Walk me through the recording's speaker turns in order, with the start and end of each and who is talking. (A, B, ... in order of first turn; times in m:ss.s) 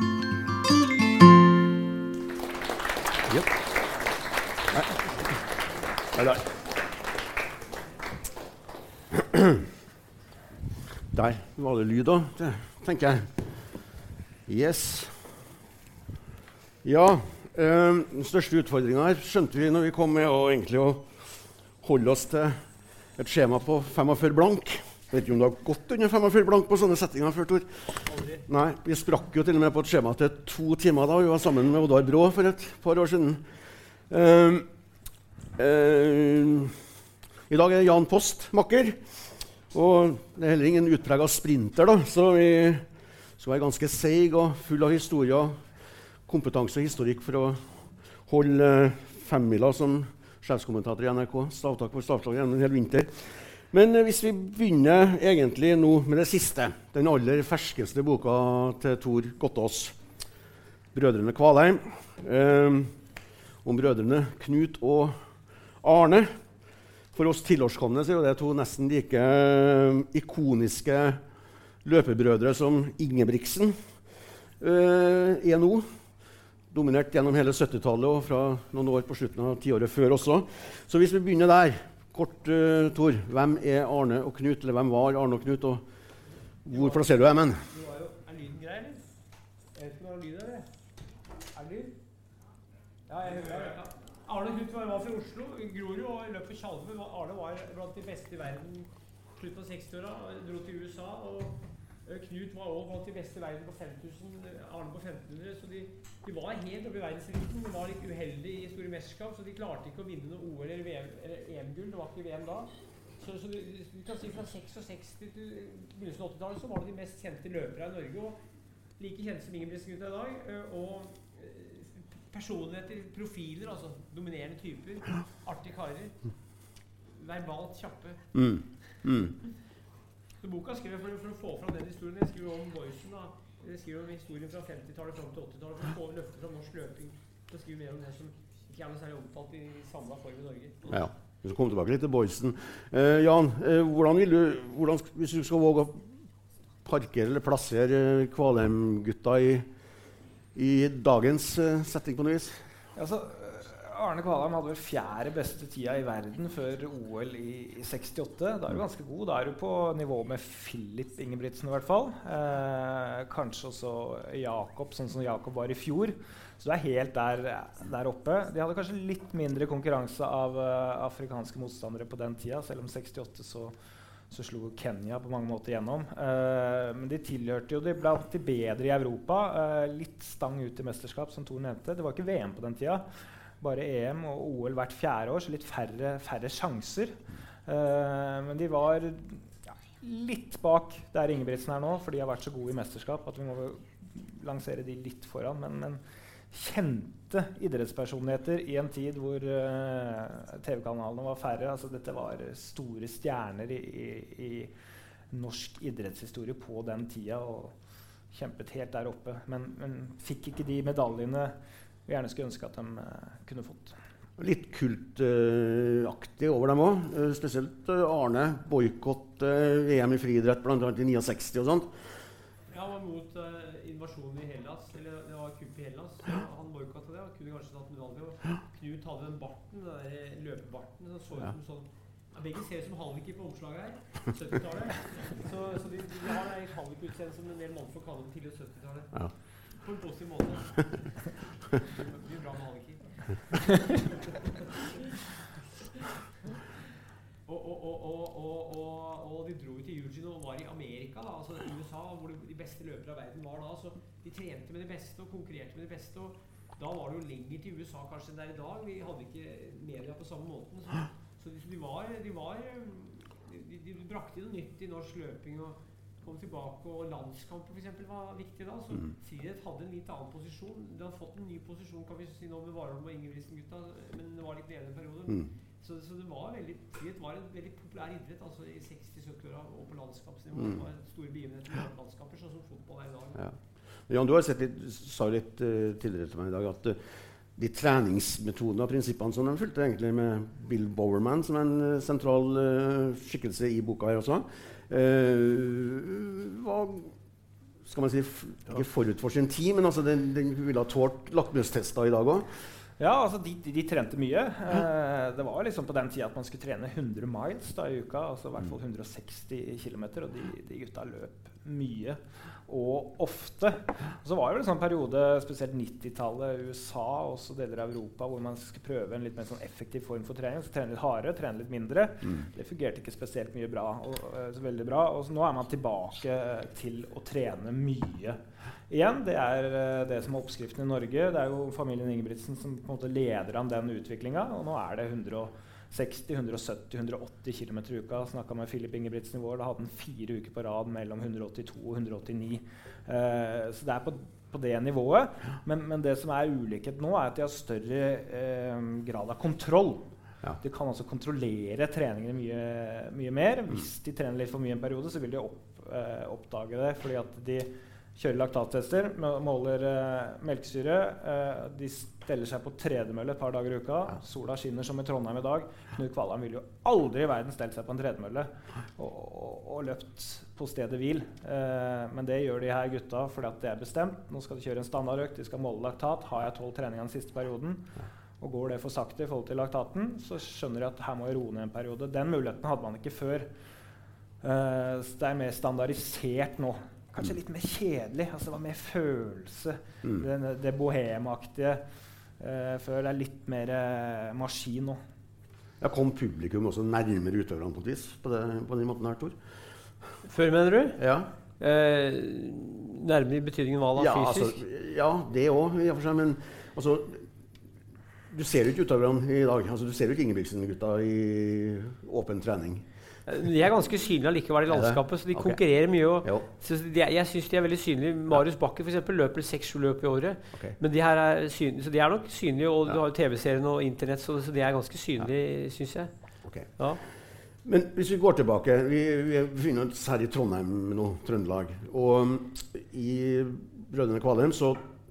0:04.7-0:05.0 A
0:06.1-0:06.5 A
0:09.1-0:09.6 A
0:11.1-0:13.6 A
0:14.5-0:15.4 A
0:16.8-0:21.2 A
0:21.8-0:22.6 A
0:23.2-0:33.5 A
0:28.1-0:28.4 B
0:34.1-0:34.7 A
0:35.6-0:36.8 A
0:37.5-0:42.8 A
0:43.4-0:45.6 A
0:46.2-1:00.0 A
1:00.9-1:02.9 A
1:03.6-1:05.2 A
1:05.8-1:06.3 A
1:07.1-1:11.2 A
1:11.8-1:13.8 A
1:14.6-1:15.9 A
1:16.7-1:25.8 A
1:26.6-1:27.7 A
1:26.7-1:29.0 B
1:29.7-1:30.7 B
1:31.5-1:32.0 B
1:33.1-1:58.4 B
1:59.0-2:06.2 B
2:07.1-2:08.2 B
2:08.3-2:09.3 A
2:10.4-2:21.1 B
2:20.9-2:26.0 A
2:26.8-2:29.6 A
2:30.5-2:32.6 A
2:33.0-2:53.7 C
2:54.3-3:03.0 C
3:03.6-3:24.7 C
3:25.3-3:27.7 C
3:28.3-3:31.5 C
3:32.0-3:34.0 C
3:34.4-3:42.0 A
3:42.7-3:59.1 B
3:59.8-4:00.8 B
4:01.9-4:03.3 B
4:07.4-4:43.5 B
4:44.1-4:47.0 A
4:47.6-4:57.1 A
4:57.8-5:02.5 A
5:03.0-5:50.1 C
5:50.6-6:23.5 C
6:24.4-6:31.8 C
6:32.4-6:35.0 C
6:35.8-6:39.4 A
6:40.2-6:41.0 B
6:41.0-6:41.3 A
6:41.6-6:44.6 B
6:44.0-6:47.2 A
6:48.3-6:52.8 A
6:53.3-7:06.1 B
6:54.7-6:55.6 A
7:06.4-7:06.7 A
7:07.6-7:14.8 A